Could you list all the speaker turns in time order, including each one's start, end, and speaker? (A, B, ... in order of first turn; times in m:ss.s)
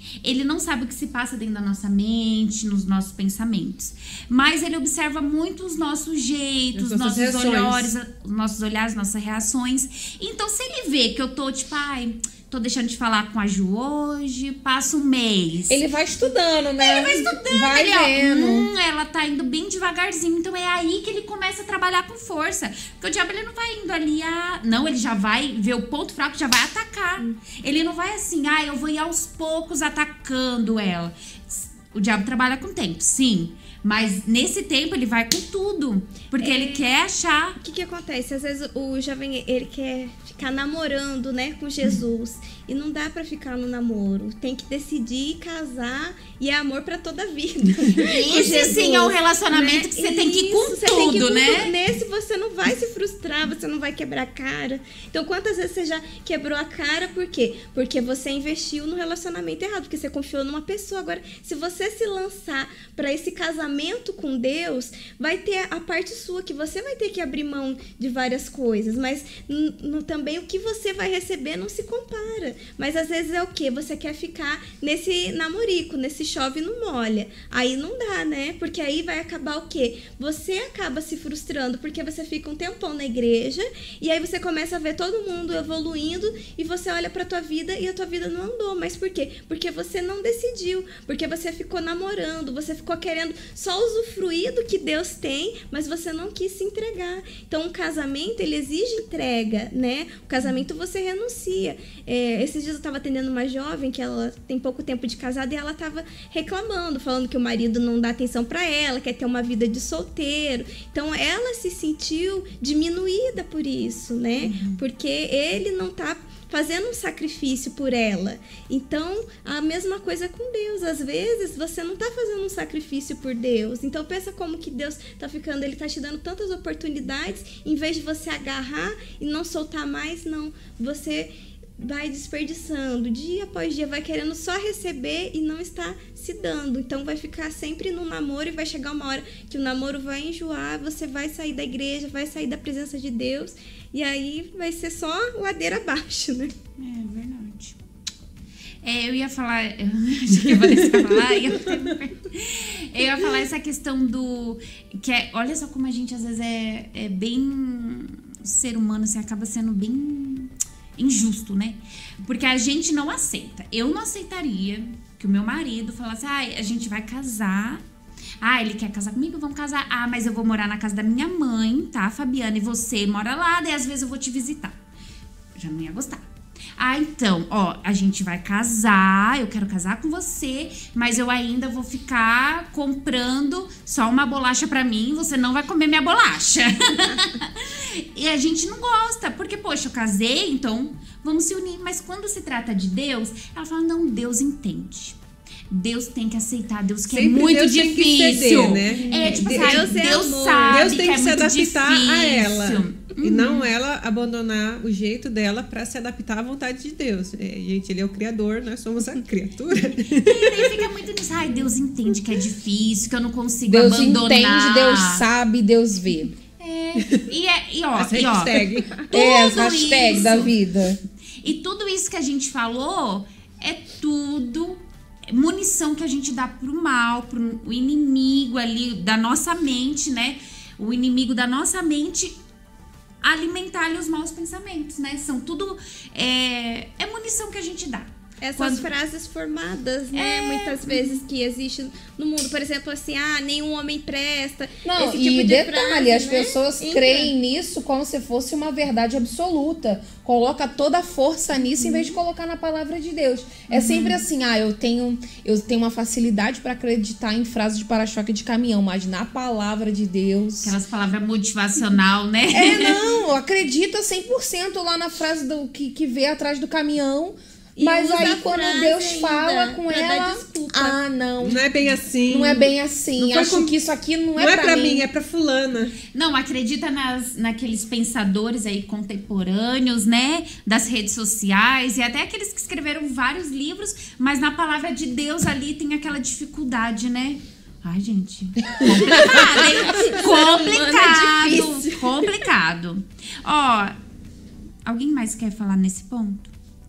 0:00.2-0:15.8 A
0:06.8-0:07.9 B
0:15.7-0:18.7 C
0:16.8-0:37.6 A
0:36.4-0:36.8 D
0:37.6-2:26.5 D
0:48.0-0:51.7 A
1:54.4-1:54.8 A
2:26.8-2:27.8 A
2:28.8-2:47.8 A
2:30.6-2:31.4 B
2:48.4-2:54.8 A
2:55.6-2:56.2 A
2:56.8-3:15.2 A
3:15.7-3:23.7 A
3:17.1-3:19.9 B
3:19.1-3:21.0 D
3:20.7-3:30.7 B
3:30.2-3:35.2 A
3:33.7-3:36.3 C
3:36.6-3:40.6 A
3:38.0-3:39.0 B
3:39.1-3:41.0 C
3:41.4-3:52.4 A
3:53.2-3:58.9 A
3:58.4-4:07.3 D
4:00.1-4:01.2 A
4:04.8-4:20.8 C
4:13.7-4:14.2 A
4:20.6-4:23.0 A
4:22.5-4:31.6 C
4:27.8-4:31.0 D
4:31.4-4:33.7 B
4:32.2-4:35.1 C
4:34.4-4:36.0 B
4:36.1-4:54.0 A
4:49.2-4:52.3 D
4:54.8-4:56.5 A